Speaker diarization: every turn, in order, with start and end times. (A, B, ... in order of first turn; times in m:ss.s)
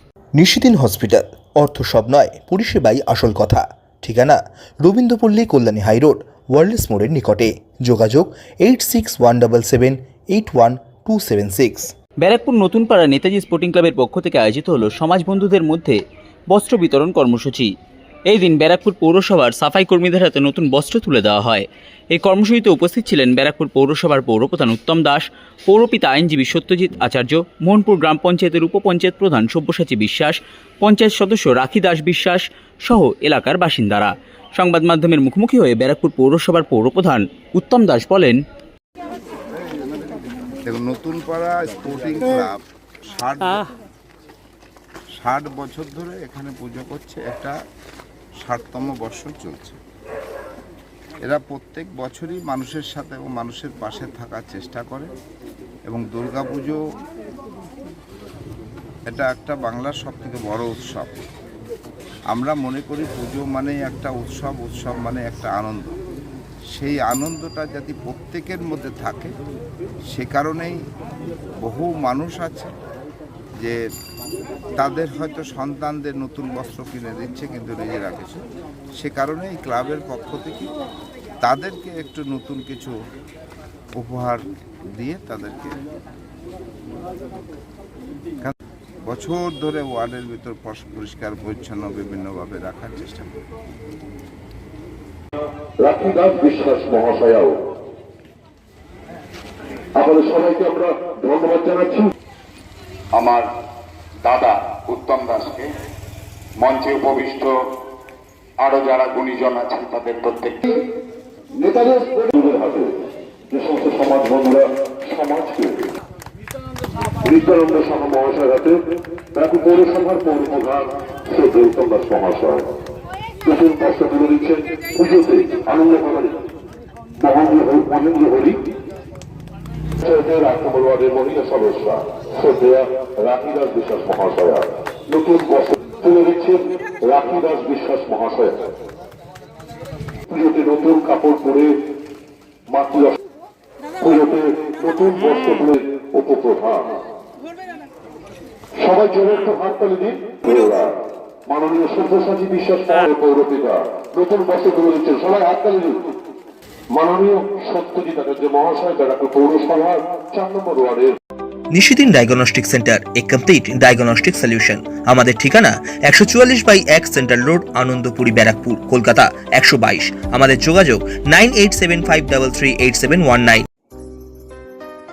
0:00.4-0:11.9 A
0:12.2-0:16.0 B
0:16.5-0:17.7 B
0:18.3-0:38.4 B
0:39.5-0:42.6 C
0:43.1-0:43.7 C
0:45.2-0:47.5 C
0:48.4-0:49.8 C
0:51.2-0:55.1 C
0:55.9-0:56.8 C
0:59.1-1:01.1 C
1:02.3-1:06.0 C
1:06.7-1:09.3 C
1:10.1-1:10.8 C
1:11.6-1:12.7 C
1:14.8-1:18.4 C
1:19.0-1:20.7 C
1:21.4-1:22.9 C
1:24.0-1:24.4 C
1:25.0-1:25.8 C
1:29.1-1:33.4 C
1:35.8-1:37.6 D
1:40.0-1:42.1 D
1:43.1-1:43.5 E
1:44.2-1:45.7 E
1:46.6-1:47.6 E
1:48.6-1:50.7 E
1:51.6-1:52.9 D
1:53.5-1:55.9 D
1:57.2-1:58.8 D
1:59.3-2:02.6 D
2:03.4-2:06.4 D
2:07.2-2:08.6 D
2:10.0-2:18.6 D
2:20.3-2:21.7 D
2:22.7-2:23.2 D
2:24.0-2:26.9 D
2:28.8-2:30.9 D
2:31.5-2:36.0 D
2:36.9-2:41.1 D
2:41.7-2:53.6 A